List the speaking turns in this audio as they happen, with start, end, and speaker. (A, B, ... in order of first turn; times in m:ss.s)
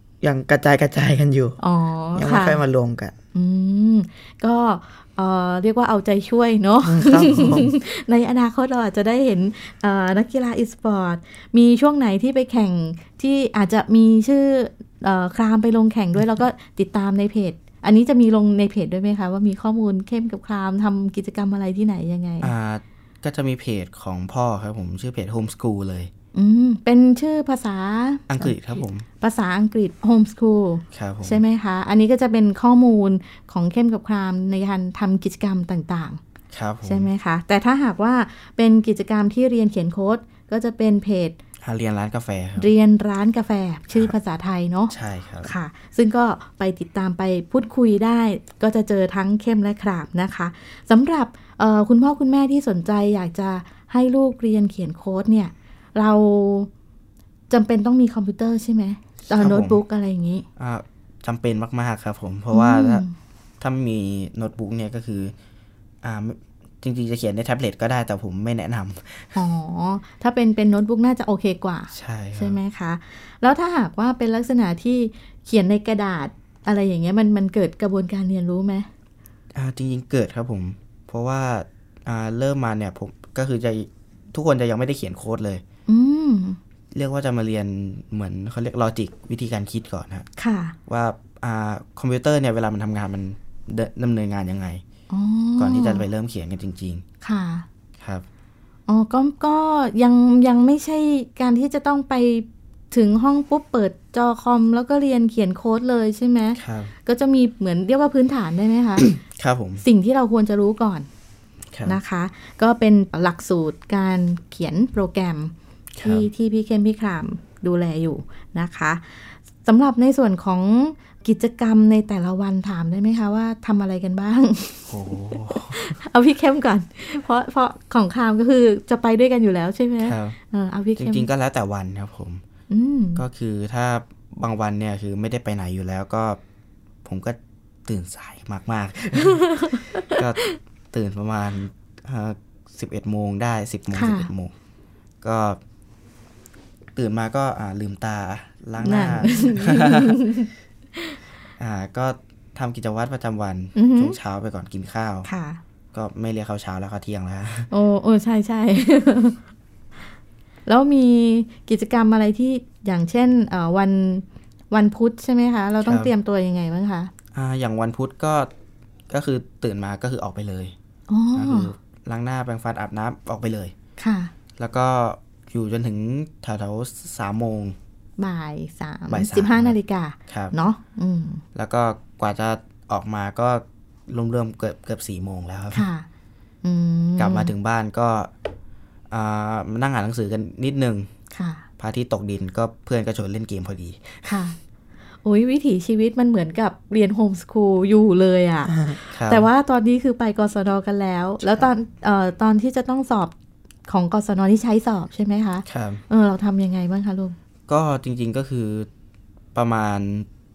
0:00.2-0:01.6 A
0:01.6-0:02.6 B
0:02.2-0:03.2 A
0:03.4-0:22.5 B
0:06.8-0:07.7 A
0:22.4-0:26.1 C
0:26.3-0:28.3 B
0:28.3-0:29.0 C
0:29.2-0:36.2 B
0:30.9-0:31.4 C
0:36.5-0:37.1 C
0:36.8-0:41.4 B
0:41.6-0:42.7 C
0:42.6-0:56.7 B
0:44.9-0:45.5 C
0:57.5-1:00.5 B
0:59.3-0:59.8 C
1:00.6-1:03.0 C
1:02.5-1:03.1 B
1:03.6-1:05.3 C
1:06.0-1:09.4 C
1:09.4-1:18.9 B
1:11.9-1:12.6 C
1:19.5-1:25.6 C
1:25.9-1:26.6 B
1:26.9-1:30.3 C
1:30.4-1:30.8 B
1:30.9-1:34.8 C
1:35.1-1:36.1 B
1:35.6-1:37.0 C
1:37.2-1:37.7 B
1:38.0-1:38.3 C
1:38.9-1:49.1 B
1:46.6-1:46.9 C
1:49.0-1:49.8 C
1:49.8-1:51.1 B
1:51.7-1:52.0 C
1:51.8-2:11.3 B
1:56.0-1:56.3 C
2:04.9-2:05.8 C
2:10.0-2:10.4 C
2:11.0-2:12.4 C
2:12.7-2:13.2 B
2:13.2-2:16.4 C
2:17.0-2:24.5 C
2:19.2-2:20.6 B
2:23.9-2:24.3 B
2:25.2-2:25.6 C
2:27.0-2:30.2 C
2:28.8-2:31.2 B
2:31.6-2:35.3 C
2:33.8-2:34.2 B
2:35.2-2:35.6 B
2:35.9-2:37.7 C
2:37.7-2:39.4 B
2:40.7-2:47.1 B
2:45.8-2:46.1 C
2:47.3-2:48.5 C
2:49.1-2:50.8 C
2:51.1-2:51.7 B
2:51.4-2:53.8 C
2:54.0-2:54.3 B
2:54.6-2:57.8 C
2:58.2-3:01.4 B
2:59.1-2:59.8 C
3:00.3-3:00.5 C
3:01.6-3:05.9 C
3:05.7-3:06.1 B
3:06.6-3:07.5 B
3:07.2-3:08.3 C
3:09.1-3:11.1 C
3:11.3-3:11.6 B
3:11.8-3:14.5 C
3:14.3-3:14.6 B
3:15.2-3:23.3 B
3:19.1-3:19.5 C
3:23.9-3:27.4 B
3:25.7-3:26.0 C
3:27.7-3:28.9 C
3:29.5-3:30.3 C